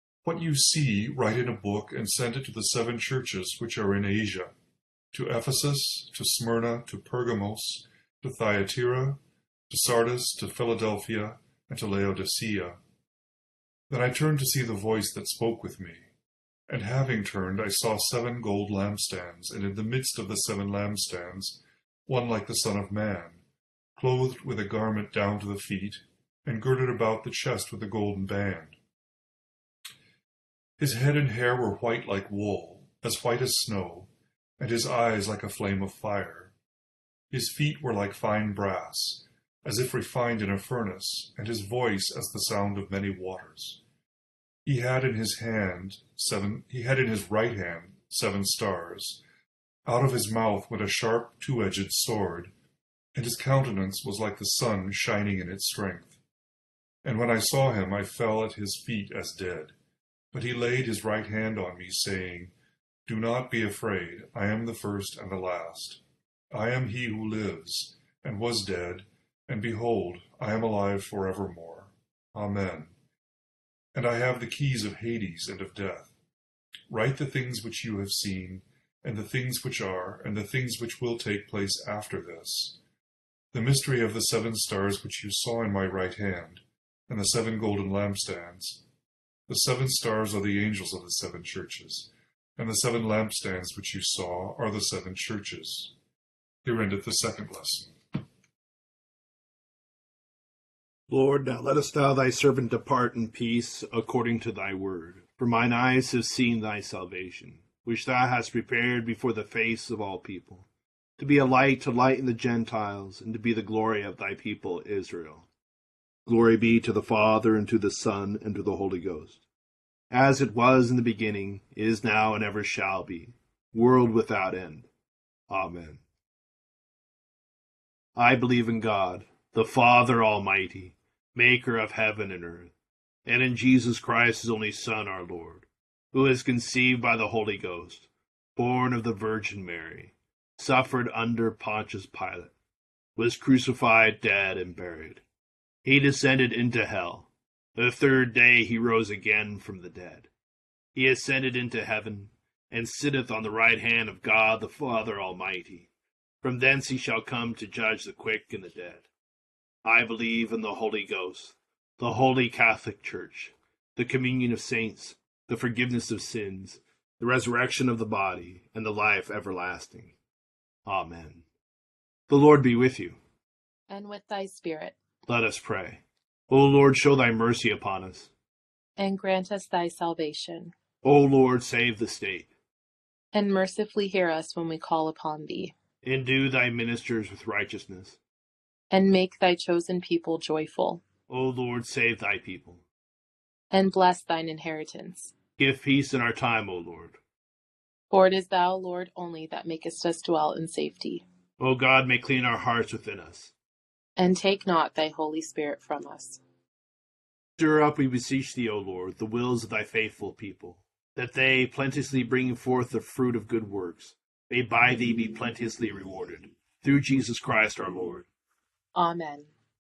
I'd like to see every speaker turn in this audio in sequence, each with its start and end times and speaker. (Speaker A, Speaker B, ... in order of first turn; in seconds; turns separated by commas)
Speaker A: 0.2-4.5, Speaker A: 5.1-12.8, Speaker A: 13.9-16.1, Speaker A: 16.7-23.4, Speaker A: 24.0-28.8, Speaker A: 30.8-36.5, Speaker A: 37.3-43.8, Speaker A: 44.7-49.2, Speaker A: 49.9-52.5, Speaker A: 53.1-56.2, Speaker A: 57.0-59.8, Speaker A: 60.3-62.5, Speaker A: 63.1-72.9, Speaker A: 73.9-76.1, Speaker A: 76.9-82.8, Speaker A: 83.5-88.8, Speaker A: 89.5-95.9, Speaker A: 96.6-97.9, Speaker B: 101.1-110.7, Speaker B: 111.2-115.5, Speaker B: 116.3-119.4, Speaker B: 120.1-124.9, Speaker B: 125.5-126.0, Speaker B: 128.2-132.7, Speaker B: 133.3-142.5, Speaker B: 143.2-145.2, Speaker B: 145.8-150.3, Speaker B: 151.0-155.9, Speaker B: 156.4-159.1, Speaker B: 159.8-170.1, Speaker B: 170.9-171.4, Speaker B: 172.3-173.2, Speaker C: 173.9-175.0, Speaker B: 175.3-178.3, Speaker C: 179.0-180.7, Speaker B: 181.0-182.5, Speaker C: 183.3-185.8, Speaker B: 186.0-188.2, Speaker C: 188.9-191.0, Speaker B: 191.3-192.8, Speaker C: 193.7-195.3, Speaker B: 195.6-197.2, Speaker C: 198.1-201.2, Speaker B: 201.6-203.5, Speaker C: 204.2-206.4, Speaker B: 207.6-218.3, Speaker C: 218.9-219.5